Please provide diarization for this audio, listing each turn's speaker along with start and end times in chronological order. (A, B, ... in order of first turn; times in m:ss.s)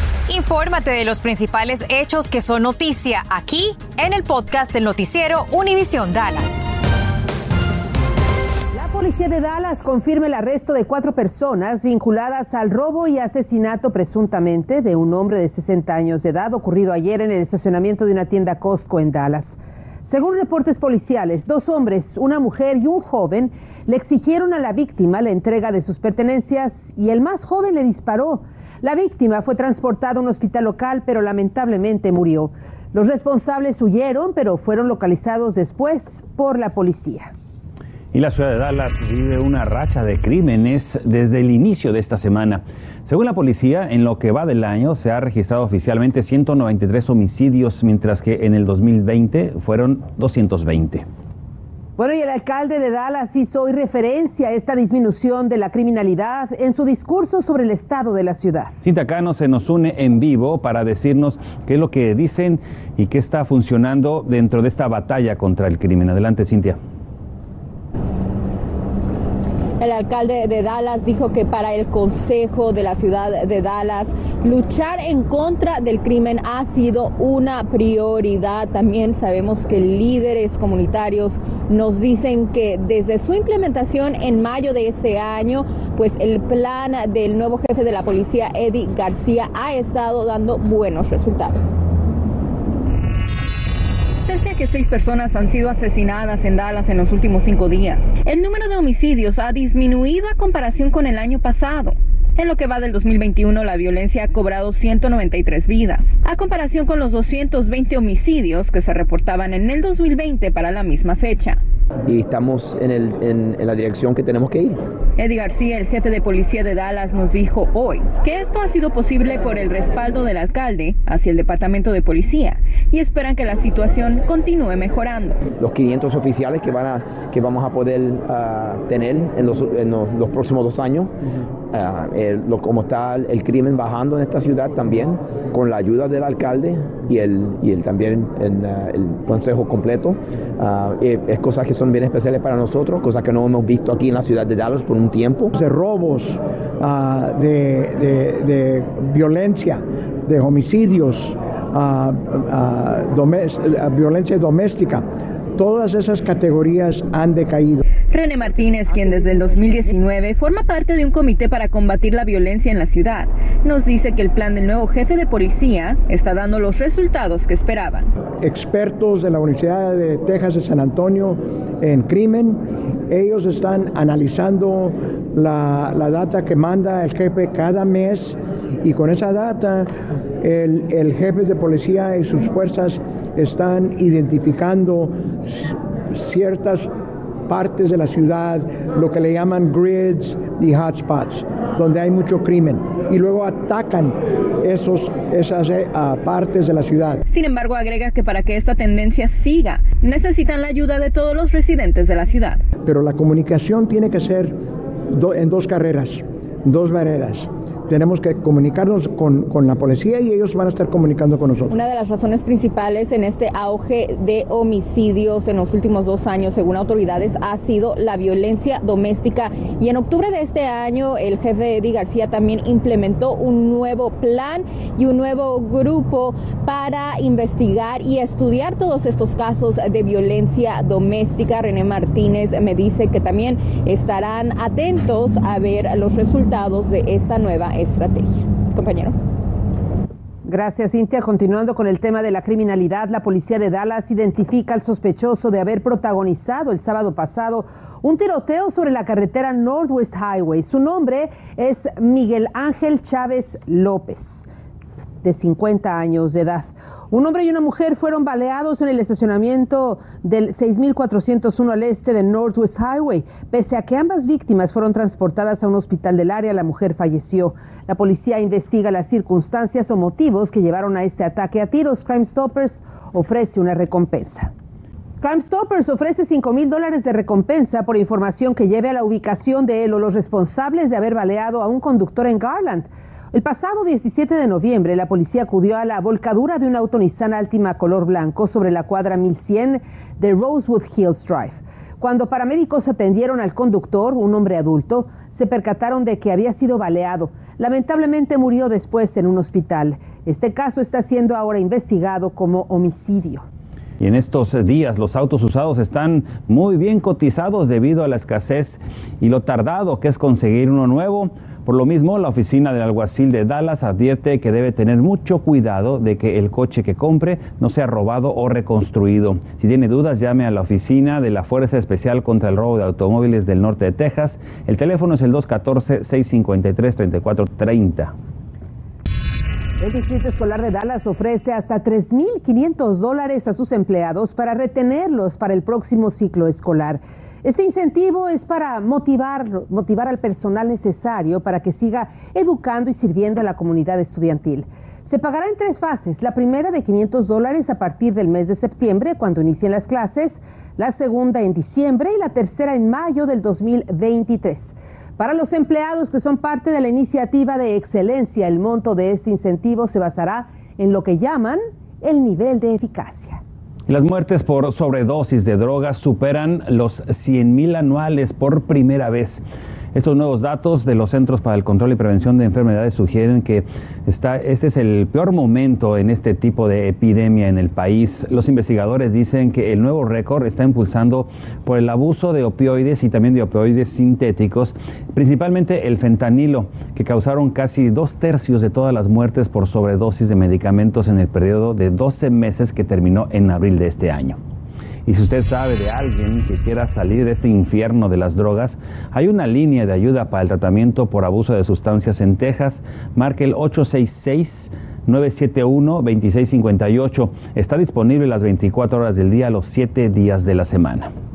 0:00.3-0:06.8 A
0:08.7-0:37.3 B
0:38.1-0:51.0 C
0:52.0-0:58.8 B
0:58.8-1:06.8 C
1:09.8-1:31.8 D
1:34.3-1:51.6 D
1:52.1-1:54.8 E
1:55.2-2:05.4 D
2:05.6-2:11.1 E
2:11.7-2:25.5 E
2:25.5-2:35.0 F
2:35.6-2:37.8 F
2:38.1-2:48.1 D
2:48.4-3:06.9 F
3:07.5-3:17.2 F
3:17.3-3:22.6 D
3:22.8-3:24.6 F
3:25.1-3:31.7 F
3:31.7-3:59.2 D
4:00.4-4:14.5 B
4:15.2-4:34.5 B
4:35.2-5:03.4 B
5:04.0-5:28.1 C
5:29.8-6:03.4 B
6:03.9-6:09.4 C
6:09.9-6:34.4 C
6:35.1-6:51.1 C